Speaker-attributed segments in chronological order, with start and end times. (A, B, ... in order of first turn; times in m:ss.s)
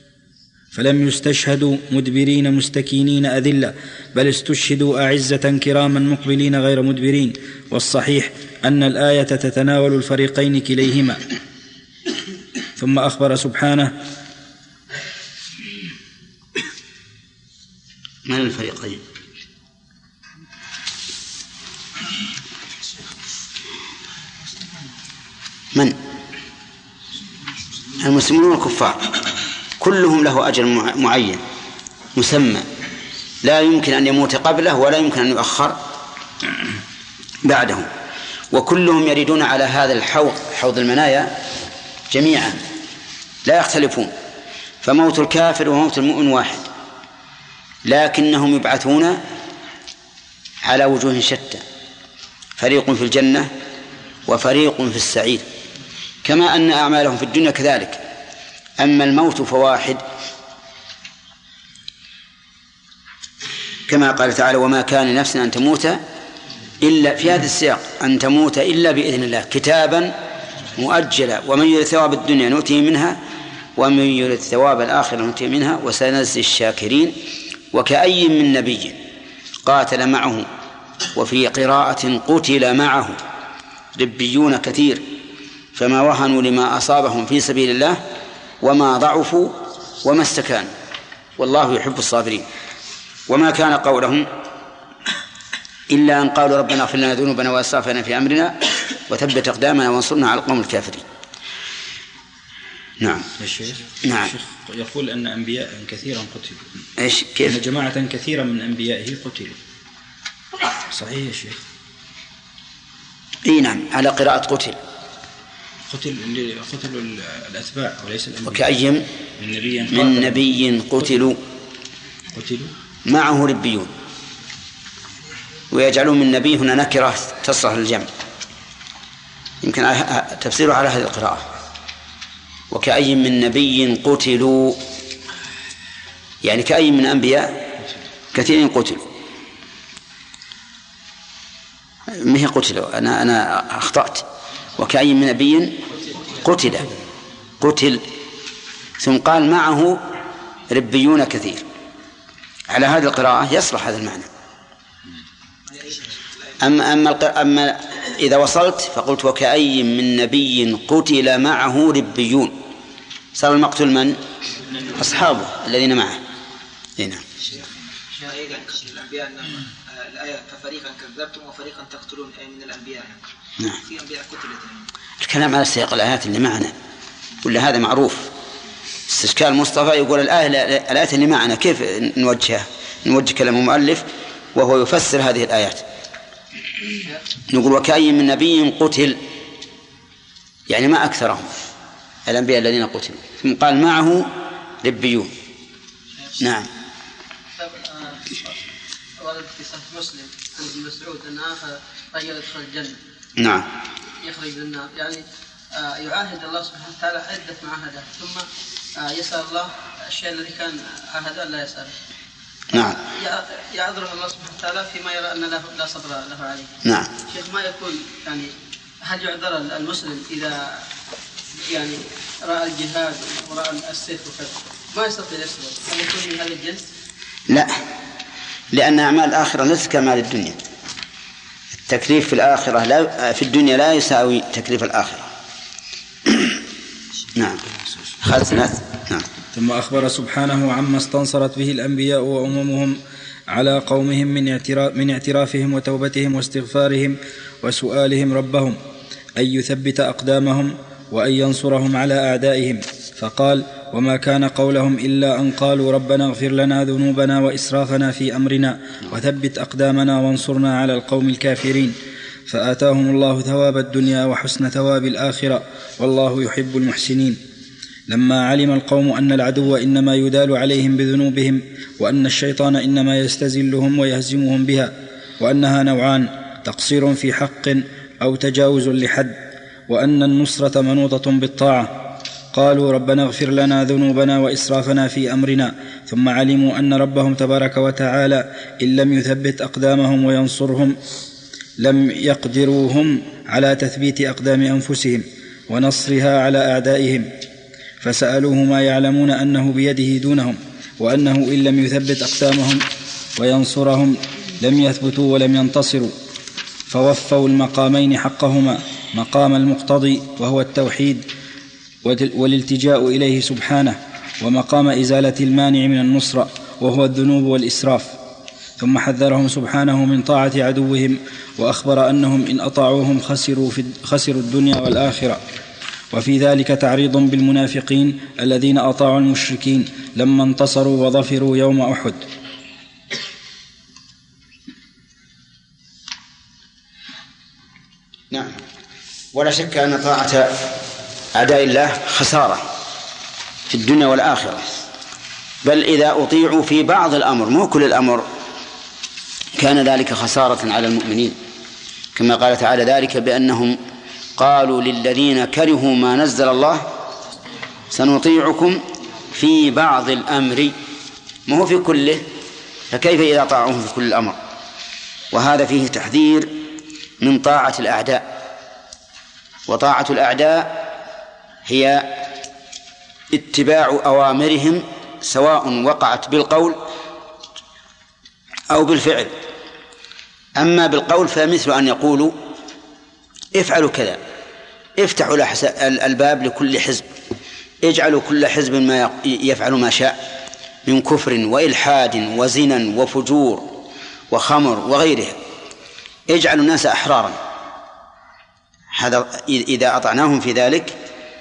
0:00.7-0:11.2 A
0:12.8-0:13.9 A
0:18.3-0:19.0 B
0:28.0-0:29.0 B
0:29.8-0:31.4 B
0:32.1-0:32.7 B
0:33.4-0:35.8 B
0:37.4-0:37.9 B
0:38.5-0:41.3 B
0:42.1-0:42.6 B
0:43.4-0:44.1 B
0:44.8-0:46.7 B
0:47.9-0:49.2 B
0:50.6-0:51.6 B
0:52.6-0:53.5 B
0:54.3-0:55.4 B
0:56.2-0:58.0 B
0:58.8-1:00.0 B
1:03.9-1:06.0 B
1:06.8-1:10.1 B
1:10.7-1:13.2 B
1:13.8-1:17.1 B
1:17.7-1:19.0 B
1:19.6-1:20.5 B
1:21.1-1:23.2 B
1:23.9-1:25.0 B
1:25.8-1:28.0 B
1:28.6-1:30.7 B
1:31.4-1:32.5 B
1:33.3-1:34.3 B
1:35.9-1:38.6 B
1:39.1-1:41.0 B
1:43.0-1:43.3 B
1:43.4-1:46.6 A
1:44.0-1:44.3 B
1:47.0-1:47.6 B
1:47.5-1:49.6 A
1:50.8-1:51.6 A
1:53.4-1:54.8 B
1:55.9-1:58.7 A
1:58.4-1:59.0 B
1:59.4-2:00.4 A
1:59.9-2:01.4 B
2:02.3-2:02.7 A
2:03.0-2:03.9 B
2:05.7-2:08.1 B
2:09.6-2:11.4 B
2:12.7-2:14.8 B
2:16.4-2:17.6 B
2:18.3-2:19.0 B
2:22.1-2:24.2 B
2:24.8-2:26.9 B
2:27.6-2:28.0 B
2:29.0-2:30.0 B
2:30.7-2:31.6 B
2:32.7-2:34.3 B
2:35.7-2:36.2 C
2:36.6-2:42.6 B
2:43.4-2:44.2 B
2:45.0-2:46.2 B
2:47.0-2:47.2 B
2:48.1-2:53.2 C
2:53.8-2:54.8 C
2:55.2-2:56.7 B
2:57.4-2:58.3 B
2:59.1-3:05.8 B
3:07.5-3:09.2 B
3:10.7-3:11.5 B
3:12.3-3:14.3 B
3:14.8-3:15.3 B
3:16.4-3:16.7 B
3:17.6-3:18.6 D
3:19.2-3:23.0 D
3:23.4-3:23.7 B
3:24.2-3:25.2 D
3:25.8-3:28.4 D
3:29.0-3:31.9 D
3:32.7-3:33.0 B
3:33.0-3:36.7 D
3:37.3-3:38.5 D
3:39.0-3:40.6 D
3:41.6-3:46.8 D
3:47.5-3:47.8 B
3:48.7-3:50.6 B
3:51.9-3:55.3 B
3:56.3-3:56.6 B
3:57.3-3:57.6 B
3:58.2-3:59.3 B
3:59.5-4:03.0 A
4:03.5-4:08.8 A
4:09.4-4:21.9 A
4:22.5-4:27.4 A
4:28.1-4:39.4 A
4:39.9-4:41.9 A
4:42.5-4:51.0 A
4:51.8-4:57.3 A
4:58.0-5:02.8 A
5:03.4-5:06.1 A
5:06.9-5:11.2 A
5:12.0-5:18.1 A
5:18.8-5:25.4 A
5:26.1-5:32.2 A
5:38.3-5:38.6 B
5:39.3-5:40.6 B
5:41.3-5:42.6 B
5:43.7-5:44.6 B
5:45.6-5:48.3 B
5:49.6-5:51.4 B
5:52.1-5:53.8 B
5:54.4-5:56.9 B
5:57.9-6:00.7 B
6:01.5-6:02.2 B
6:02.9-6:04.4 B
6:05.3-6:06.5 B
6:07.2-6:08.2 B
6:09.7-6:10.7 B
6:11.6-6:12.1 B
6:13.3-6:16.8 B
6:18.7-6:19.3 B
6:20.6-6:22.3 B
6:23.6-6:24.2 B
6:25.0-6:27.1 B
6:27.8-6:30.2 B
6:30.9-6:33.7 B
6:34.3-6:35.4 B
6:36.3-6:37.4 B
6:38.9-6:41.0 B